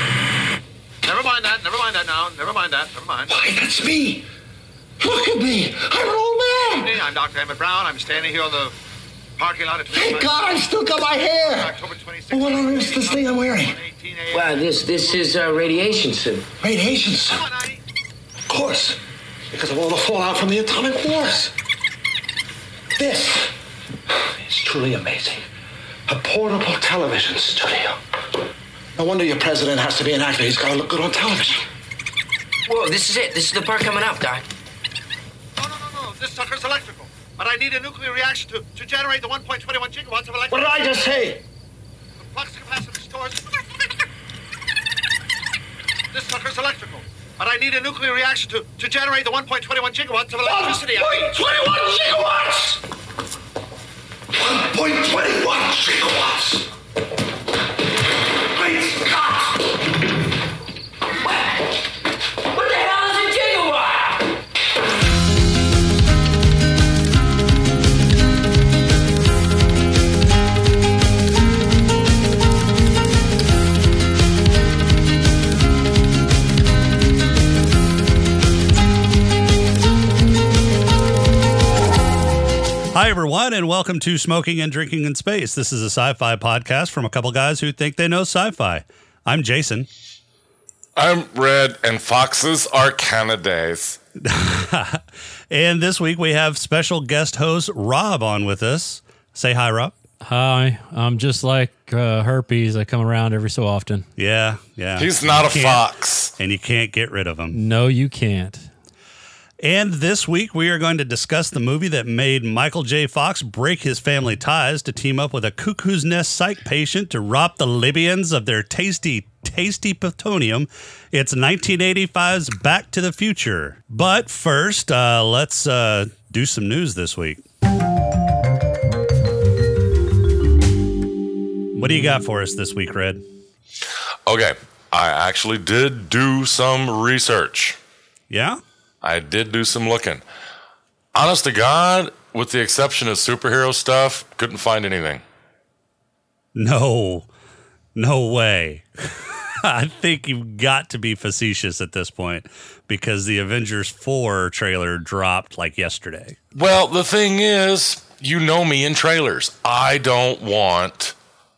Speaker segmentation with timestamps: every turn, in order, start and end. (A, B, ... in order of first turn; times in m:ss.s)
0:01.0-0:03.4 A
0:03.3-0:04.3 B
0:05.0-0:07.0 B
0:06.8-0:08.7 A
0:09.4-0:10.6 A
0:09.9-0:11.8 B
0:11.4-0:15.2 A
0:12.3-0:13.8 B
0:14.3-0:16.5 C
0:16.6-0:17.5 B
0:17.3-0:17.8 A
0:18.5-0:19.0 B
0:19.5-0:21.5 B
0:23.0-0:23.5 B
0:24.1-0:25.4 B
0:26.1-0:28.0 B
0:29.0-0:31.6 B
0:32.7-0:34.4 C
0:35.6-0:40.8 A
0:40.5-0:41.4 B
0:42.2-0:43.6 A
0:46.1-0:51.4 A
0:50.4-0:52.8 B
0:54.3-0:56.7 B
0:58.5-0:59.7 B
1:02.5-1:04.4 C
1:22.9-1:29.9 D
1:31.0-1:34.0 E
1:34.2-1:39.9 D
1:40.2-1:44.0 F
1:44.2-1:45.8 D
1:45.0-1:46.3 E
1:46.4-1:47.6 D
1:47.5-1:48.7 F
1:49.6-2:07.4 D
2:11.7-2:13.2 D
2:14.2-2:17.8 E
2:18.3-2:18.6 D
2:19.0-2:20.2 E
2:21.1-2:25.2 E
2:26.5-2:27.3 D
2:27.9-2:36.4 D
2:36.5-2:41.1 E